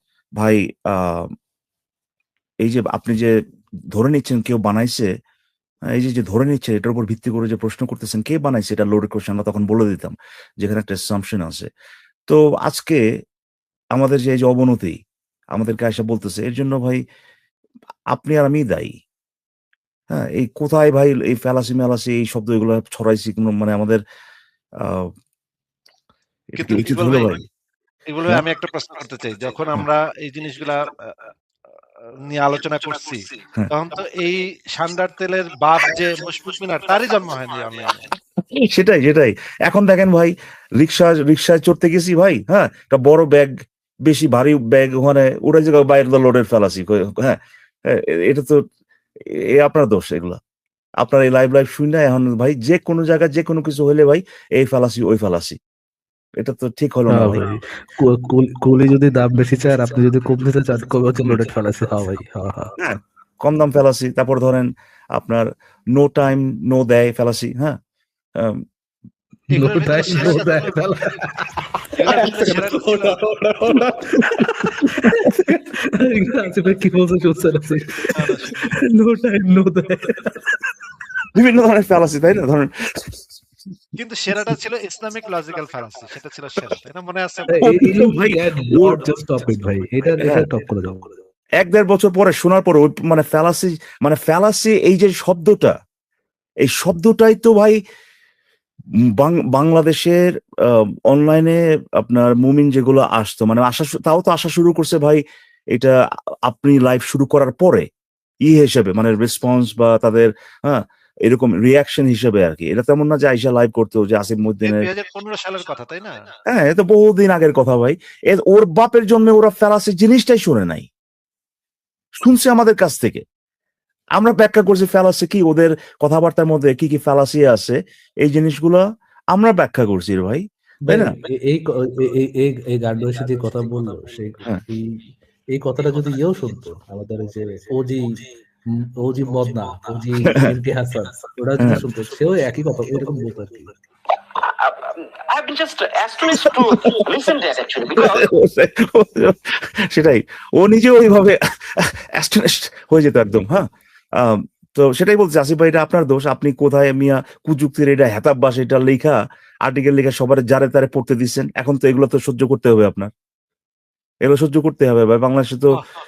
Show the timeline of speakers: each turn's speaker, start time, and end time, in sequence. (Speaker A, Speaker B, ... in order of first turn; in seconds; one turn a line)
Speaker A: 0.4-1.3
Speaker A: 2.6-3.3
Speaker A: 3.9-5.1
Speaker A: 5.9-11.7
Speaker A: 12.3-13.0
Speaker A: 13.9-15.0
Speaker A: 15.6-17.0
Speaker A: 18.1-18.9
Speaker A: 20.1-24.0
Speaker A: 24.8-25.1
Speaker A: 26.6-27.4
Speaker B: 26.6-27.4
Speaker B: 28.1-31.3
Speaker B: 32.2-38.1
Speaker A: 38.5-43.5
Speaker A: 44.1-48.6
Speaker A: 49.5-50.4
Speaker A: 51.0-55.6
Speaker A: 56.4-57.4
Speaker C: 57.1-62.8
Speaker A: 62.8-67.8
Speaker A: 68.4-68.6
Speaker B: 69.5-71.2
Speaker C: 69.5-80.6
Speaker B: 71.9-73.2
Speaker B: 78.2-78.8
Speaker A: 81.3-83.2
Speaker B: 84.0-87.5
Speaker C: 87.5-91.2
Speaker A: 87.6-88.9
Speaker A: 91.6-95.7
Speaker A: 96.7-97.8
Speaker A: 99.2-105.2
Speaker A: 106.5-107.9
Speaker A: 108.5-114.9
Speaker B: 114.6-116.2
Speaker A: 116.5-120.9
Speaker A: 122.2-123.2
Speaker A: 124.2-128.8
Speaker A: 129.3-131.2
Speaker C: 130.8-134.9
Speaker C: 135.6-138.2
Speaker C: 138.8-143.8
Speaker D: 144.3-148.2
Speaker A: 146.3-147.0
Speaker A: 148.0-153.7
Speaker A: 154.2-163.1
Speaker A: 164.2-165.8